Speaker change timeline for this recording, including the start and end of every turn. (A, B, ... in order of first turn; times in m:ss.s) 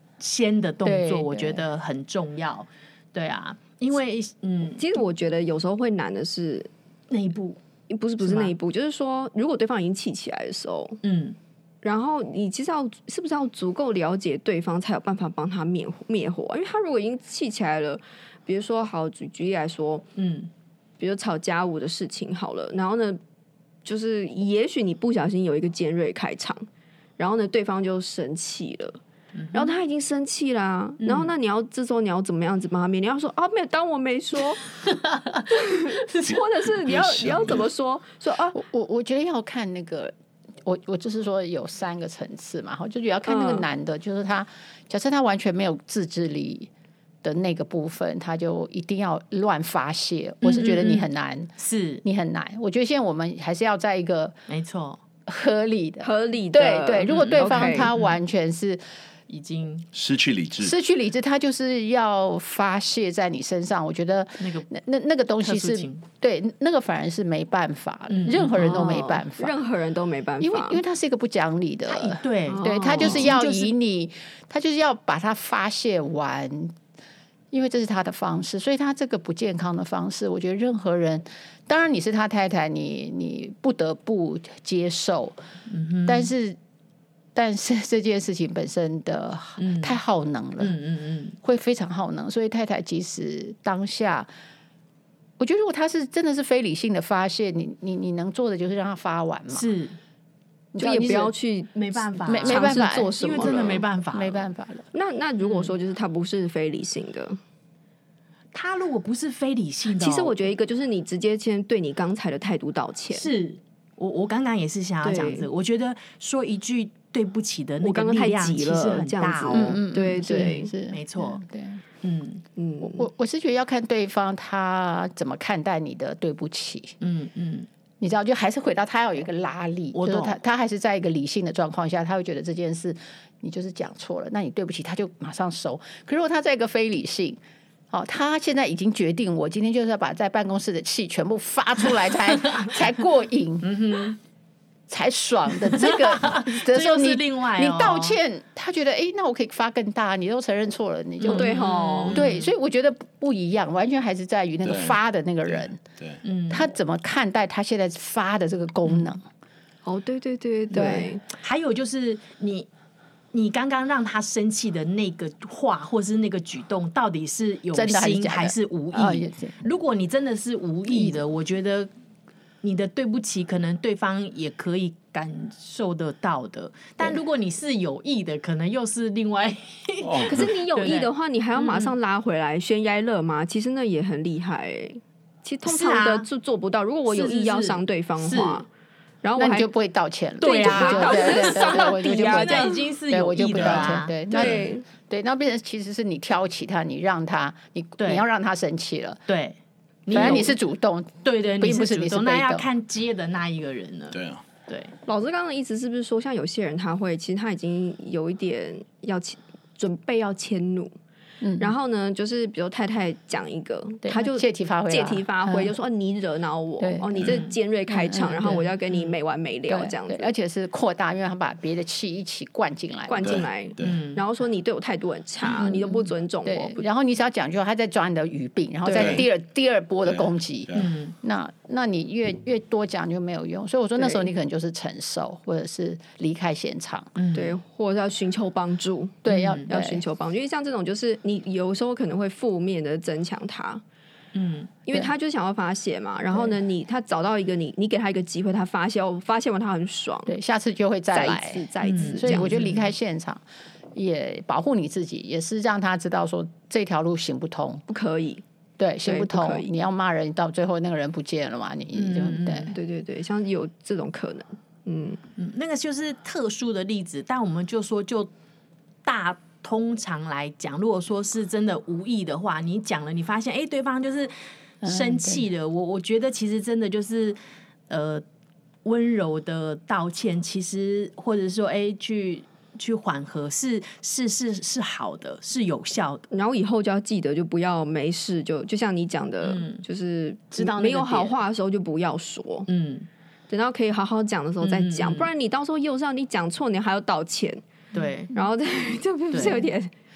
0:00.2-0:04.8 A
0:00.8-0:01.6 B
0:04.8-0:06.7 C
0:07.1-0:07.6 A
0:07.9-0:11.0 C
0:08.2-0:08.5 A
0:11.0-0:11.4 A
0:11.8-0:20.1 C
0:20.2-0:20.5 A
0:21.0-0:23.2 C
0:23.8-0:26.7 C
0:27.2-0:29.0 C
0:29.3-0:29.8 A
0:29.5-0:34.6 C
0:31.0-0:31.3 A
0:34.8-0:36.4 A
0:35.5-0:38.6 C
0:36.8-0:37.7 D
0:38.5-0:40.1 B
0:40.6-0:46.7 B
0:43.2-0:43.6 C
0:47.2-0:51.5 B
0:50.4-0:52.0 A
0:52.0-0:54.4 B
0:54.5-0:55.0 A
0:55.3-0:58.8 B
0:56.0-0:57.9 C
0:57.1-0:58.2 A
0:59.3-0:59.9 A
0:59.9-1:00.7 D
1:00.6-1:09.6 B
1:04.4-1:04.7 A
1:05.4-1:06.0 A
1:08.1-1:08.8 A
1:08.5-1:10.8 C
1:10.4-1:16.7 B
1:11.9-1:13.7 A
1:12.5-1:13.3 C
1:17.5-1:25.4 B
1:25.7-1:26.3 A
1:26.1-1:26.6 B
1:27.3-1:30.7 B
1:29.6-1:30.0 A
1:30.6-1:31.4 A
1:31.4-1:34.3 B
1:35.4-1:39.7 B
1:39.5-1:40.0 A
1:40.7-1:41.3 B
1:40.8-1:43.8 C
1:41.7-1:44.5 A
1:42.2-1:44.8 B
1:44.9-1:47.4 C
1:45.4-1:45.7 A
1:48.5-1:50.3 A
1:50.0-1:53.3 C
1:53.1-2:01.4 A
1:55.0-1:55.5 C
1:57.8-2:00.7 C
1:59.5-2:01.8 B
2:02.0-2:02.4 A
2:02.6-2:03.0 C
2:02.8-2:06.9 B
2:07.0-2:07.7 A
2:08.0-2:17.4 B
2:09.9-2:10.4 A
2:17.9-2:23.8 B
2:23.6-2:24.2 A
2:24.9-2:35.8 B
2:25.6-2:28.2 A
2:31.2-2:32.5 A
2:31.3-2:32.2 C
2:34.6-2:36.2 D
2:36.2-2:36.7 A
2:36.5-2:39.2 B
2:38.8-2:39.1 A
2:39.8-2:41.2 C
2:40.7-2:41.1 B
2:41.3-2:42.7 A
2:43.3-2:51.9 A
2:47.7-2:49.5 B
2:52.6-3:01.9 A
3:00.0-3:00.5 D
3:00.3-3:08.7 C
3:05.6-3:06.3 A
3:07.1-3:08.6 A
3:09.2-3:09.7 C
3:09.4-3:19.2 B
3:10.4-3:14.5 A
3:10.4-3:12.8 C
3:13.6-3:14.6 D
3:14.3-3:14.8 C
3:18.0-3:18.2 A
3:19.3-3:20.6 A
3:20.1-3:22.7 B
3:20.1-3:20.4 C
3:21.2-3:24.9 A
3:24.1-3:24.4 D
3:25.0-3:30.9 C
3:31.4-3:31.7 B
3:31.6-3:40.3 C
3:34.0-3:35.7 B
3:36.8-3:38.7 B
3:37.2-3:37.5 A
3:39.7-3:43.5 B
3:43.1-3:46.8 C
3:43.2-3:44.0 D
3:43.8-3:44.2 A
3:45.6-3:57.2 B
3:48.8-3:49.3 C
3:48.9-3:49.2 D
3:50.0-3:50.9 D
3:50.7-3:51.2 A
3:54.0-3:54.3 C
3:57.2-3:57.6 A
3:57.3-4:03.8 C
3:59.2-4:00.0 B
3:59.3-3:59.7 A
4:04.3-4:04.7 A
4:04.9-4:10.3 C
4:10.3-4:13.4 B
4:11.1-4:12.5 C
4:11.8-4:12.9 A
4:14.0-4:17.8 B
4:17.9-4:18.4 C
4:18.8-4:22.7 B
4:19.0-4:19.7 C
4:21.9-4:22.8 A
4:22.6-4:25.2 C
4:25.4-4:28.3 A
4:29.0-4:37.4 A
4:34.8-4:35.4 B
4:37.9-4:38.2 A
4:38.8-4:46.2 A
4:46.3-4:52.7 C
4:49.4-4:49.8 A
4:50.5-4:51.4 A
4:52.7-4:53.1 A
4:53.5-4:57.6 C
4:54.6-4:55.3 A
4:57.9-4:58.3 A
4:58.3-4:59.9 C
4:59.3-4:59.6 A